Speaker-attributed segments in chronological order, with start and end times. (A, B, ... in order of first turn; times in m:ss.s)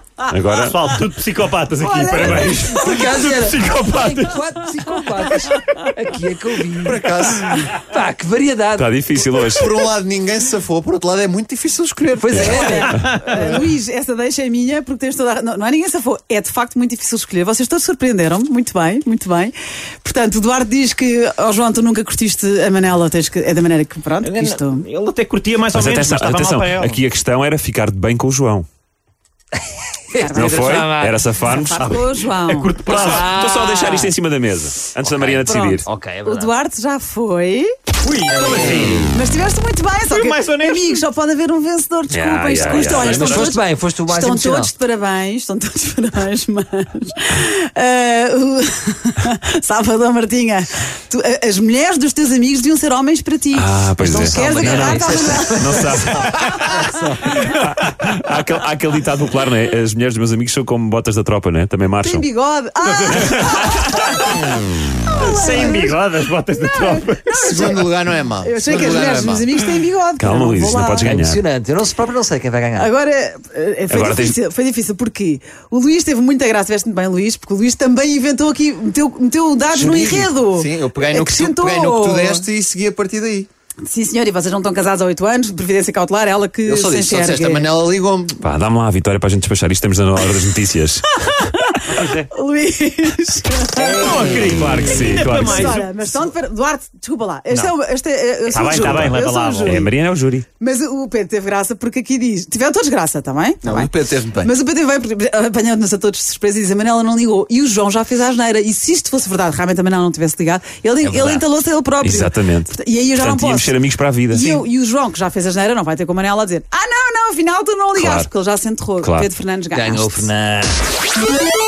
0:00.3-0:00.8 A
0:00.6-0:04.4 B
0:01.8-0:02.5 C
0:02.2-0:02.5 A
0:02.5-0:08.9 D
0:06.8-0:07.7 E
0:08.7-0:09.7 A
0:09.5-0:12.6 E
0:12.2-0:13.6 D
0:12.5-0:24.8 C
0:24.2-0:27.0 B
0:25.7-0:28.7 A
0:30.1-0:31.2 D
0:30.1-0:32.8 C
0:30.4-0:31.9 A
0:31.8-0:33.3 B
0:32.8-0:35.9 A
0:33.0-0:34.1 D
0:35.0-0:36.5 D
0:35.4-0:37.7 C
0:38.0-0:39.1 B
0:39.0-0:56.8 C
0:40.1-0:41.0 B
0:42.1-0:43.3 A
0:42.6-0:44.7 D
0:53.5-1:02.2 A
0:54.0-0:56.2 D
1:02.0-1:04.4 C
1:02.8-1:03.8 B
1:03.2-1:03.9 A
1:05.0-1:06.0 C
1:05.1-1:07.3 B
1:06.5-1:11.1 C
1:07.3-1:09.5 E
1:10.2-1:11.4 A
1:11.0-1:12.9 D
1:12.8-1:22.5 C
1:13.9-1:14.4 A
1:19.7-1:23.5 E
1:23.8-1:27.7 C
1:26.6-1:28.4 E
1:28.4-1:31.7 A
1:31.3-1:31.8 C
1:31.8-1:32.3 B
1:32.3-1:34.3 C
1:33.8-1:36.2 B
1:34.0-1:35.8 A
1:35.2-1:39.9 C
1:38.5-1:39.9 B
1:38.6-1:40.4 A
1:40.6-1:53.7 C
1:43.6-1:44.5 E
1:51.0-1:51.4 D
1:52.0-1:54.6 A
1:54.3-2:00.3 C
1:58.0-1:58.3 A
1:59.0-1:59.3 A
1:59.7-2:00.8 D